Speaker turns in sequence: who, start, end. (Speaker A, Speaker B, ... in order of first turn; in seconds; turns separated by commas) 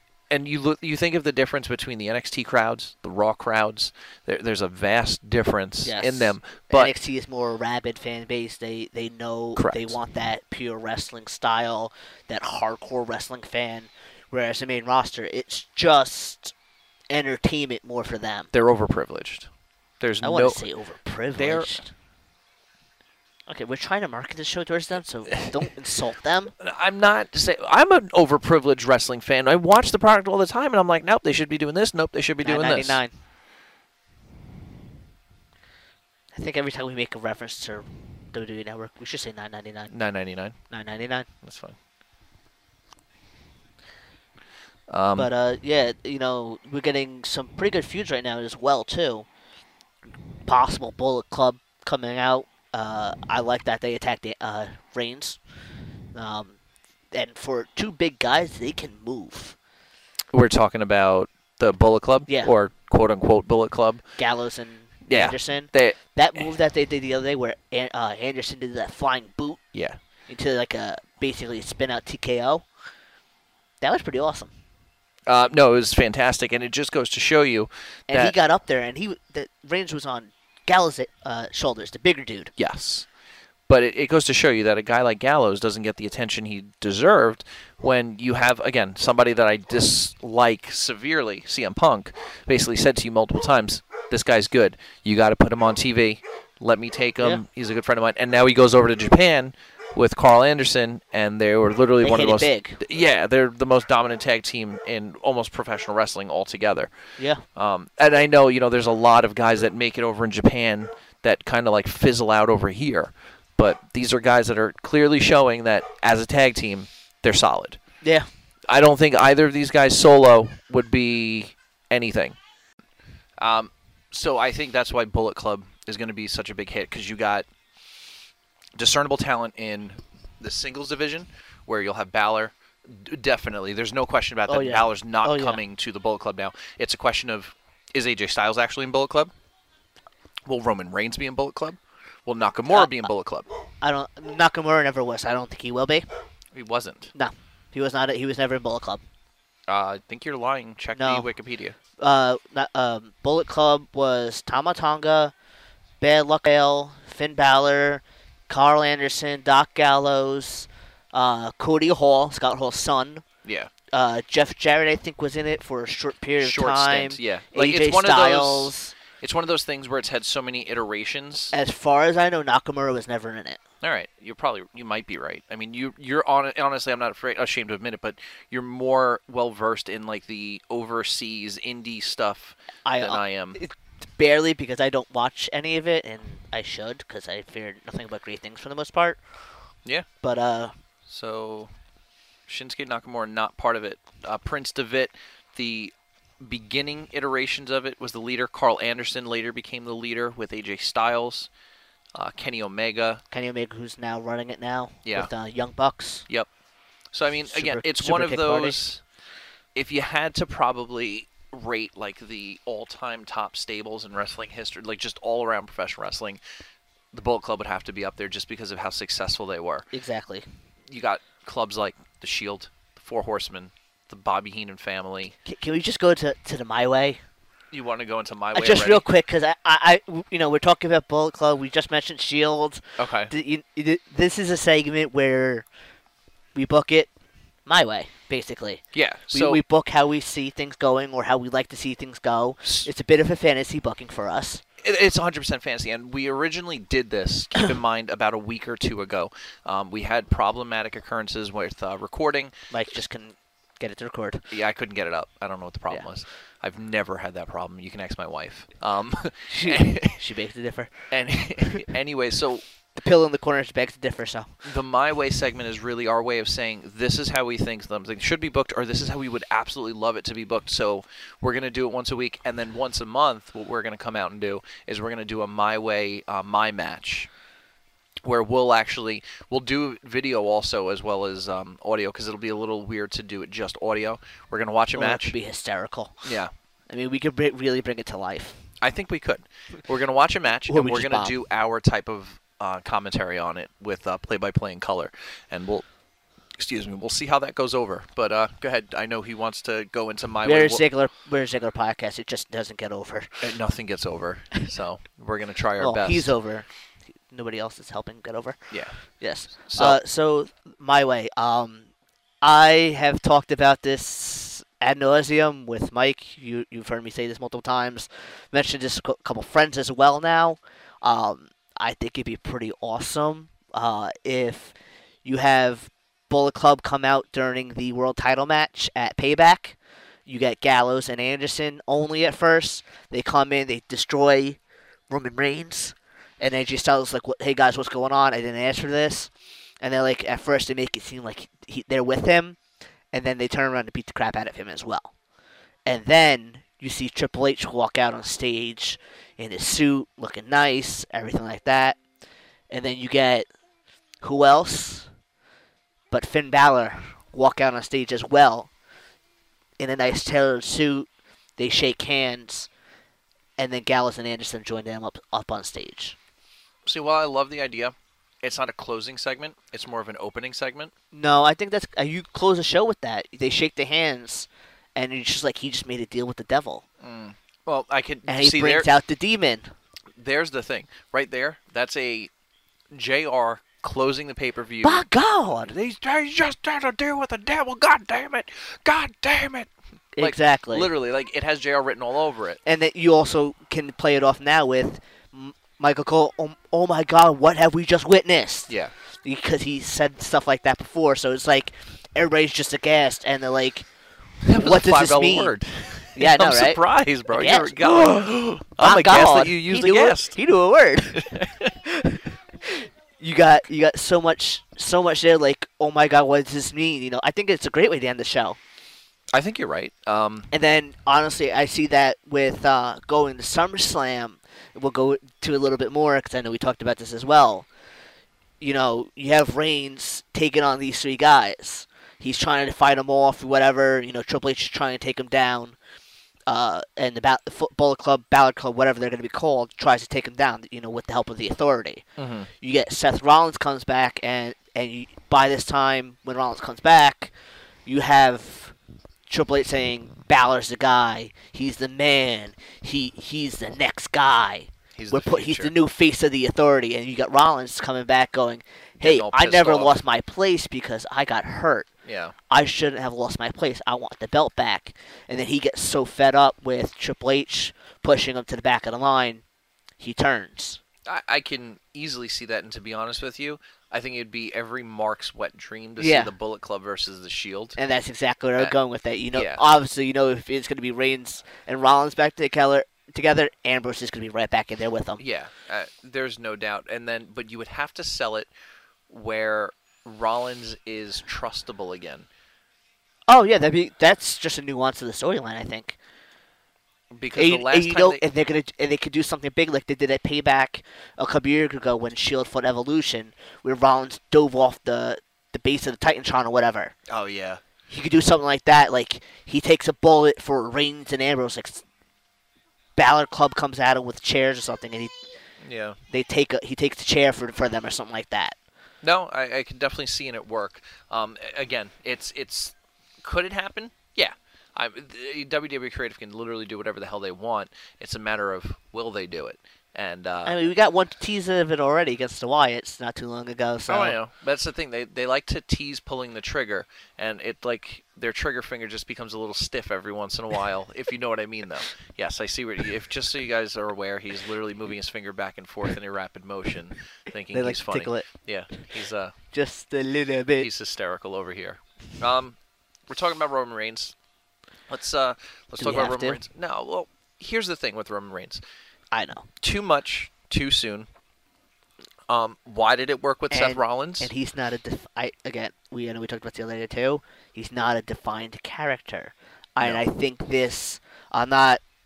Speaker A: 0.3-6.9, Speaker B: 5.8-16.5, Speaker A: 9.6-10.0, Speaker B: 17.1-18.5, Speaker A: 18.5-19.5, Speaker A: 20.0-20.6, Speaker B: 20.2-21.9, Speaker A: 21.3-21.8, Speaker B: 23.5-26.5, Speaker A: 26.6-33.0, Speaker B: 32.4-33.1, Speaker B: 36.3-39.9, Speaker A: 39.9-40.6, Speaker B: 40.7-41.3, Speaker A: 41.4-41.8, Speaker A: 44.9-45.3, Speaker B: 45.2-49.3, Speaker B: 50.5-55.4, Speaker B: 56.1-56.6, Speaker B: 57.1-59.6, Speaker A: 60.3-64.0, Speaker B: 62.3-62.5, Speaker B: 64.2-69.6, Speaker A: 65.1-66.4, Speaker B: 70.3-72.7, Speaker B: 73.8-74.5, Speaker A: 75.3-78.3, Speaker B: 78.1-82.5, Speaker A: 82.6-83.1, Speaker A: 83.7-106.9, Speaker B: 102.0-102.8, Speaker B: 107.2-107.4, Speaker A: 107.6-117.8, Speaker B: 118.0-118.3, Speaker A: 118.7-122.4, Speaker A: 123.4-127.5, Speaker A: 128.8-139.3, Speaker B: 134.5-135.6, Speaker A: 140.5-143.5, Speaker B: 143.8-146.1, Speaker A: 146.5-147.1, Speaker B: 147.1-149.0, Speaker A: 149.7-151.8, Speaker B: 150.9-151.3, Speaker B: 152.0-155.3, Speaker B: 156.0-163.2, Speaker A: 163.4-163.7, Speaker B: 163.9-168.9, Speaker A: 166.4-171.5, Speaker B: 171.5-173.6, Speaker A: 173.8-183.6, Speaker B: 182.8-189.2, Speaker B: 190.2-190.7, Speaker A: 191.1-191.7, Speaker A: 192.5-201.5, Speaker A: 202.2-203.2, Speaker B: 203.3-206.3, Speaker A: 205.1-205.3, Speaker A: 207.1-209.0, Speaker B: 207.5-208.8, Speaker A: 209.8-216.4, Speaker A: 217.1-219.9, Speaker B: 219.9-220.5, Speaker A: 220.9-225.4, Speaker B: 225.4-227.2, Speaker A: 227.7-229.1, Speaker B: 228.5-235.7, Speaker A: 233.0-233.3, Speaker B: 236.6-237.1, Speaker B: 237.7-244.6, Speaker A: 238.9-239.6, Speaker A: 242.6-242.9, Speaker A: 244.8-252.5, Speaker B: 252.7-254.5, Speaker A: 254.5-260.2, Speaker B: 259.5-261.1, Speaker A: 261.1-262.6, Speaker B: 262.9-264.6, Speaker A: 264.6-277.3, Speaker A: 278.2-285.3, Speaker B: 284.9-286.2, Speaker A: 286.2-286.5, Speaker B: 286.9-288.6, Speaker A: 288.8-295.9, Speaker B: 290.7-291.4, Speaker A: 296.6-300.8, Speaker B: 300.4-303.4, Speaker A: 303.4-306.3, Speaker B: 305.8-306.7, Speaker B: 307.3-311.9, Speaker A: 308.7-309.0, Speaker A: 309.6-310.0, Speaker B: 312.4-334.6, Speaker B: 335.1-339.3, Speaker B: 339.8-342.6, Speaker B: 343.1-345.1, Speaker B: 345.9-352.0, Speaker B: 352.7-353.5, Speaker B: 354.2-355.1, Speaker B: 356.1-358.7, Speaker B: 359.8-362.7, Speaker B: 363.6-366.2, Speaker A: 366.9-370.9, Speaker B: 371.1-376.9, Speaker A: 377.0-378.9, Speaker B: 378.3-379.7, Speaker A: 380.2-382.3, Speaker A: 382.9-385.1, Speaker B: 384.8-385.7, Speaker A: 385.6-392.6, Speaker B: 390.2-390.9, Speaker B: 392.6-403.9, Speaker A: 404.4-410.4, Speaker B: 404.5-405.6, Speaker B: 406.1-408.2, Speaker B: 408.8-411.3, Speaker A: 411.1-411.8, Speaker B: 411.8-418.6, Speaker A: 419.3-420.5, Speaker B: 420.5-427.7, Speaker B: 428.6-435.8, Speaker B: 436.5-442.0, Speaker A: 442.2-442.5, Speaker B: 442.6-447.3, Speaker B: 447.9-448.8, Speaker B: 449.3-461.9, Speaker A: 454.9-455.7, Speaker A: 459.0-460.0, Speaker A: 462.1-462.4, Speaker B: 462.5-469.4, Speaker B: 470.0-470.8, Speaker A: 471.1-477.8, Speaker B: 476.0-476.3, Speaker B: 477.8-485.2, Speaker A: 479.3-479.6, Speaker A: 485.2-488.5, Speaker A: 489.1-492.3, Speaker B: 493.3-496.0, Speaker A: 497.1-498.2, Speaker B: 497.4-506.9, Speaker A: 507.1-507.6, Speaker B: 507.9-511.8, Speaker B: 513.0-515.2, Speaker A: 515.6-516.0, Speaker B: 516.1-518.5, Speaker A: 519.0-530.6, Speaker B: 530.5-534.2, Speaker A: 533.9-549.3, Speaker B: 547.5-548.3, Speaker B: 549.5-550.7, Speaker A: 550.6-552.6, Speaker A: 553.1-554.1, Speaker A: 554.9-558.6, Speaker B: 555.8-556.4, Speaker B: 559.1-559.5, Speaker A: 559.6-561.1, Speaker A: 562.3-564.3, Speaker B: 563.5-571.8